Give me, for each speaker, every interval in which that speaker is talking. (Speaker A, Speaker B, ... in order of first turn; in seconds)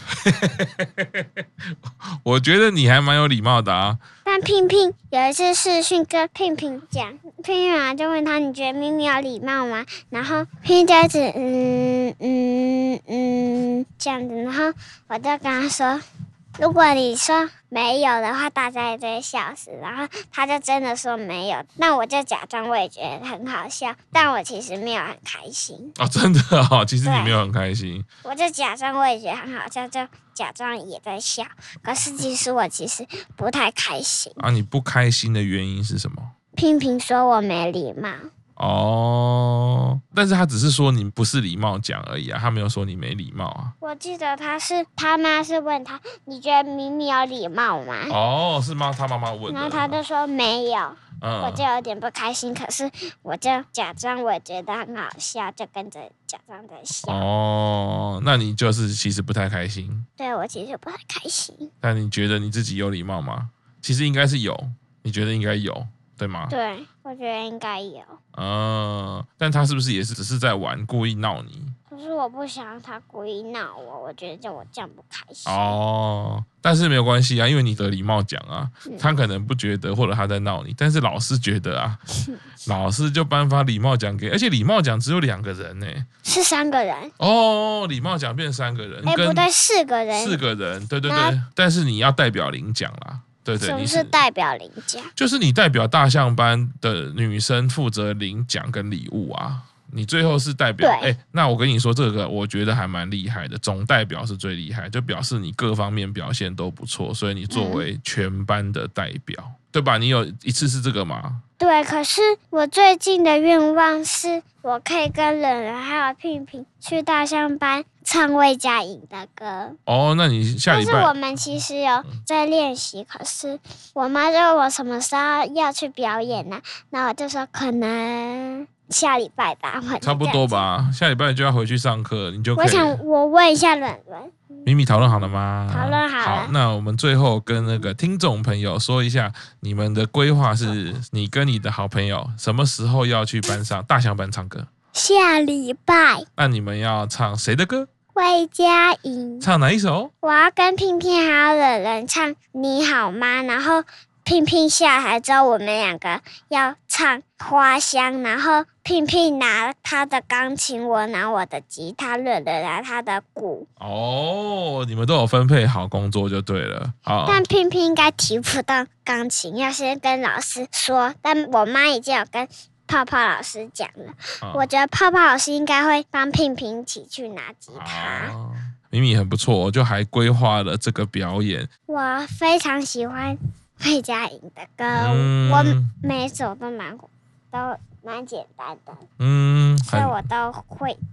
Speaker A: 0.2-1.3, 2.2-4.0, 26.0-28.1, 34.4-36.3, 38.6-43.7, 48.1-50.0, 51.2-51.6, 57.0-60.0, 61.8-66.5, 68.3-71.7, 75.5-82.0, 82.7-86.0, 87.2-89.5, 90.1-94.1, 95.2-111.4, 119.9-121.1, 130.0-133.0, 134.7-144.7, 146.4-147.9, 149.4-150.1, 163.8-167.4, 177.7-181.7, 184.9-185.9, 189.2-190.2
Speaker B: 4.2-16.0, 16.6-25.9, 27.0-27.4, 28.2-34.4, 36.5-38.3, 43.8-48.1, 49.5-57.2, 60.2-61.7, 66.5-68.2, 71.9-75.8, 86.2-87.1, 89.0-90.4, 91.0-91.4, 93.6-95.1, 100.8-101.1, 107.5-107.8, 111.6-119.8, 120.7-130.7, 132.6-134.7, 135.7-136.5, 144.9-146.2, 148.1-149.5, 150.2-163.7, 167.2-178.3, 181.9-189.0, 189.9-191.0